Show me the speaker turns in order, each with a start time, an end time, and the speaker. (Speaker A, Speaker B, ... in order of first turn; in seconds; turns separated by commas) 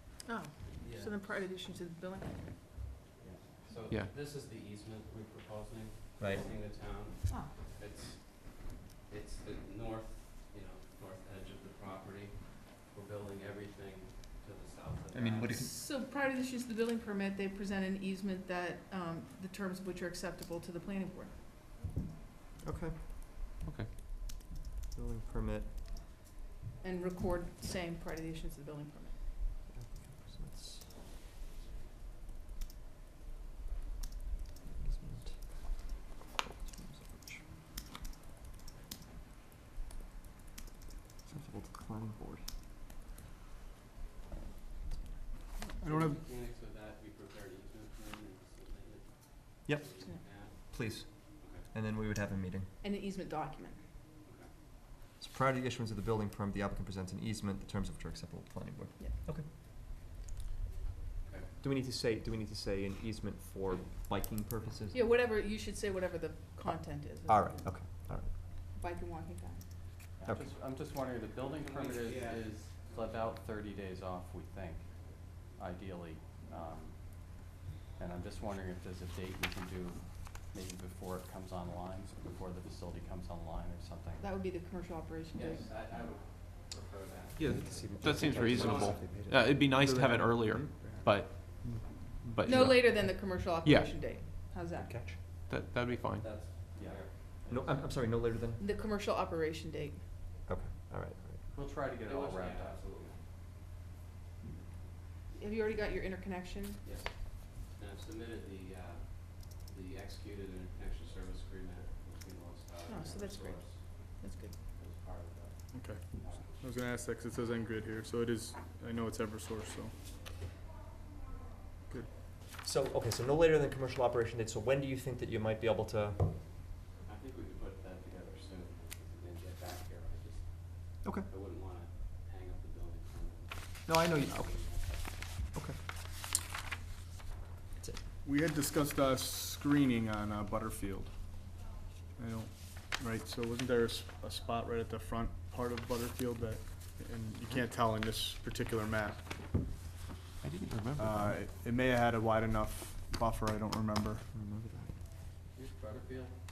Speaker A: 0.2-2.6, Speaker B: 0.7-1.4, Speaker B: 3.2-15.7, Speaker C: 15.1-15.8, Speaker A: 15.6-21.4, Speaker C: 22.6-22.9, Speaker C: 24.9-25.7, Speaker A: 26.8-29.2, Speaker C: 29.7-30.9, Speaker C: 34.7-37.5, Speaker C: 41.3-42.5, Speaker D: 45.6-46.2, Speaker B: 45.8-51.7, Speaker C: 49.7-52.7, Speaker A: 52.8-53.8, Speaker B: 54.2-54.5, Speaker C: 55.2-59.5, Speaker B: 61.3-61.5, Speaker C: 61.6-65.0, Speaker A: 64.9-67.8, Speaker C: 67.2-68.3, Speaker A: 68.7-69.9, Speaker E: 70.1-84.3, Speaker B: 71.4-73.3, Speaker A: 84.2-85.7, Speaker B: 85.3-89.2, Speaker F: 87.4-93.9, Speaker C: 87.5-91.0, Speaker D: 89.8-92.3, Speaker A: 92.5-95.2, Speaker C: 94.7-95.2, Speaker F: 95.5-96.3, Speaker B: 95.9-97.9, Speaker E: 96.5-97.5, Speaker C: 97.5-98.6, Speaker A: 98.6-100.2, Speaker C: 100.5-101.5, Speaker E: 101.5-102.9, Speaker B: 102.0-103.2, Speaker A: 105.4-106.8, Speaker B: 106.8-116.8, Speaker A: 112.9-114.6, Speaker D: 115.7-120.0, Speaker C: 122.6-126.2, Speaker B: 127.0-135.3, Speaker C: 131.0-131.3, Speaker C: 133.9-135.8, Speaker D: 138.2-141.7, Speaker D: 142.2-149.3, Speaker F: 150.4-151.4, Speaker D: 151.0-154.3, Speaker C: 154.3-155.0, Speaker E: 155.5-156.4